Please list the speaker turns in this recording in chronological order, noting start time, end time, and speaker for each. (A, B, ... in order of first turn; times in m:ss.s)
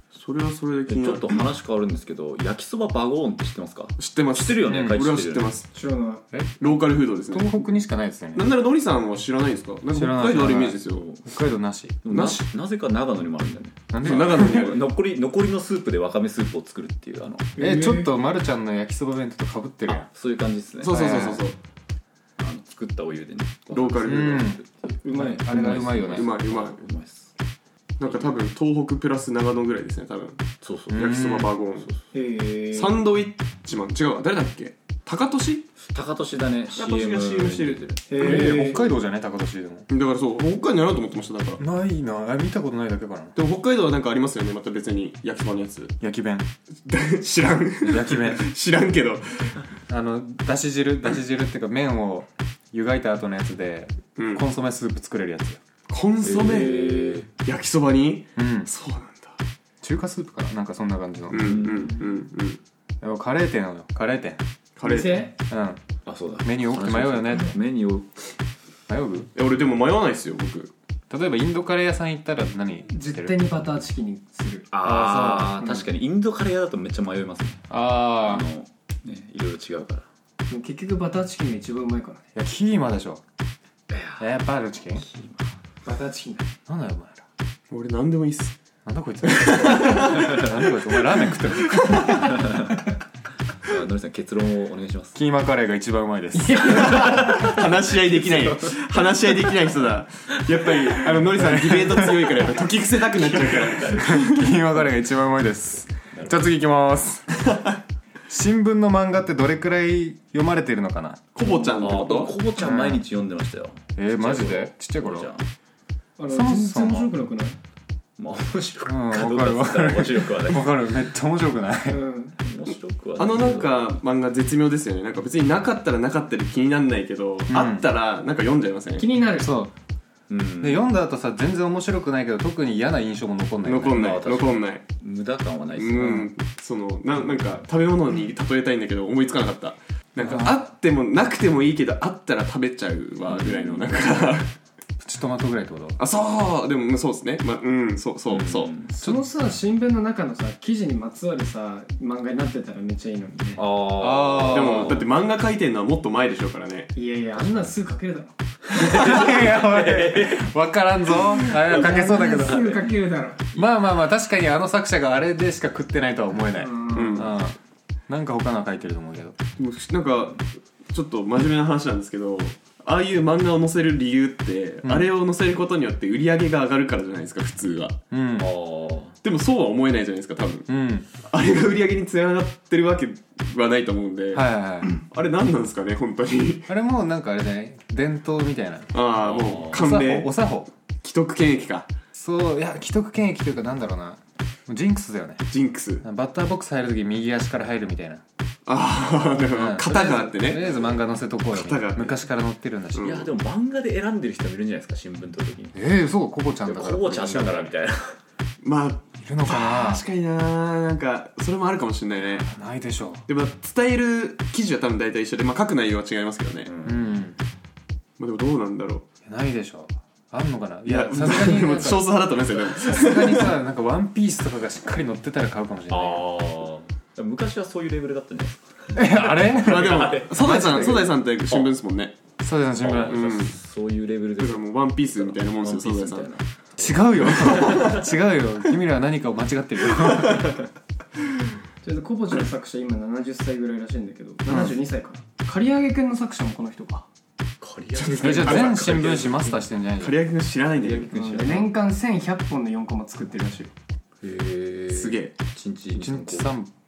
0:00.1-0:01.4 A
0:00.9-0:05.6 B
0:04.0-0:05.7 A
0:04.6-0:05.1 C
0:05.7-0:06.2 D
0:06.3-0:06.6 C
0:06.6-0:07.6 A
0:07.3-0:08.4 C
0:08.3-0:11.0 A
0:09.9-0:12.4 C
0:10.8-0:11.2 B
0:12.0-0:17.5 B
0:13.9-0:14.6 C
0:14.0-0:14.9 A
0:17.6-0:18.1 D
0:17.6-0:20.0 C
0:19.9-0:21.3 B
0:20.8-0:21.6 A
0:20.8-0:21.4 C
0:22.4-0:27.3 B
0:23.7-0:24.6 A
0:24.0-0:24.6 C
0:25.0-0:26.1 D
0:25.2-0:26.3 C
0:26.2-0:26.8 A
0:28.0-0:30.4 A
0:30.6-0:31.1 B
0:30.9-0:31.6 C
0:30.9-0:31.9 A
0:32.1-0:33.0 D
0:32.7-0:35.7 A
0:35.9-0:38.0 B
0:36.7-0:38.8 A
0:38.1-0:38.8 D
0:38.2-0:39.9 C
0:39.9-0:41.6 A
0:41.6-0:43.4 C
0:43.4-0:45.9 A
0:46.0-0:46.5 C
0:46.8-0:49.6 A
0:47.8-0:48.5 C
0:49.9-0:55.6 C
0:54.2-0:54.4 A
0:55.9-0:59.4 A
0:56.2-0:57.3 B
0:58.4-0:58.7 C
0:59.8-1:02.0 C
1:01.3-1:02.6 A
1:01.3-1:02.0 B
1:03.0-1:04.4 C
1:04.8-1:05.3 A
1:04.8-1:05.3 D
1:05.5-1:05.8 C
1:06.0-1:08.1 B
1:06.4-1:07.6 C
1:08.9-1:09.3 C
1:09.3-1:10.7 A
1:11.1-1:13.4 C
1:12.9-1:14.7 D
1:14.7-1:20.0 B
1:14.8-1:15.8 C
1:17.7-1:18.5 C
1:20.5-1:22.3 D
1:22.3-1:23.2 C
1:23.9-1:24.3 B
1:24.2-1:25.0 C
1:25.0-1:25.5 B
1:25.8-1:26.5 D
1:26.6-1:27.2 C
1:27.7-1:28.6 A
1:28.8-1:32.4 C
1:29.2-1:30.4 A
1:32.3-1:32.7 B
1:33.6-1:35.2 B
1:35.1-1:37.3 C
1:36.3-1:37.5 D
1:36.8-1:44.4 A
1:37.1-1:37.5 B
1:38.2-1:38.7 B
1:41.0-1:42.5 C
1:43.3-1:44.1 B
1:43.9-1:47.4 C
1:46.1-1:46.4 B
1:48.3-1:51.2 C
1:51.3-1:52.3 A
1:51.4-1:55.5 B
1:52.6-1:53.0 C
1:54.0-1:55.3 C
1:56.2-1:57.6 D
1:56.3-1:57.1 C
1:58.2-2:00.7 B
1:58.8-2:02.0 C
2:01.9-2:02.4 D
2:02.4-2:03.9 B
2:03.2-2:09.0 A
2:07.5-2:07.9 C
2:09.0-2:09.5 D
2:09.4-2:09.7 C
2:10.3-2:10.9 B
2:10.6-2:14.1 C
2:13.6-2:14.8 A
2:13.8-2:16.2 B
2:15.8-2:24.5 A
2:16.0-2:16.3 C
2:20.2-2:20.6 C
2:23.3-2:23.9 B
2:25.0-2:26.0 C
2:26.0-2:28.7 A
2:28.3-2:28.9 B
2:29.0-2:33.6 D
2:33.6-2:35.1 B
2:34.0-2:35.0 C
2:34.4-2:36.9 A
2:36.9-2:38.3 D
2:38.7-2:40.5 B
2:38.7-2:42.8 C
2:41.6-2:43.5 D
2:43.5-2:47.6 C
2:46.5-2:47.3 D
2:46.9-2:47.3 A
2:48.1-2:49.4 C
2:49.6-2:58.0 A
2:54.8-2:55.1 C
2:58.1-2:58.5 C
2:58.4-2:59.2 B
2:59.2-3:00.7 A
3:00.7-3:01.1 C
3:01.3-3:06.7 A
3:04.3-3:05.0 C
3:06.7-3:09.0 C
3:08.9-3:10.3 A
3:09.2-3:09.9 B
3:09.7-3:10.7 C
3:11.0-3:11.9 A
3:12.1-3:15.4 C
3:15.5-3:16.0 A
3:16.0-3:18.2 C
3:18.6-3:20.7 A
3:19.4-3:23.2 C
3:21.5-3:22.2 A
3:22.9-3:23.3 A
3:23.0-3:25.8 B
3:25.7-3:27.7 C
3:26.6-3:28.2 B
3:28.6-3:32.5 A
3:29.2-3:30.0 C
3:32.4-3:33.3 C
3:33.3-3:36.7 A
3:36.6-3:37.1 B
3:36.8-3:37.4 C
3:38.2-3:39.0 A
3:39.2-3:46.2 C
3:40.8-3:43.5 A
3:45.9-3:51.7 B
3:48.9-3:51.1 C
3:49.6-3:52.2 A
3:52.4-3:53.2 C
3:52.8-3:58.0 B
3:53.1-3:53.6 A
3:54.4-3:56.3 A
3:56.8-4:00.6 C
3:57.3-3:58.0 A
4:01.8-4:07.1 D
4:04.5-4:04.7 C
4:07.6-4:09.6 B
4:08.0-4:09.4 A
4:08.2-4:10.2 C
4:10.0-4:11.1 A
4:10.8-4:11.7 B
4:11.1-4:13.7 D
4:14.2-4:16.5 B
4:14.9-4:15.3 A
4:15.9-4:16.7 C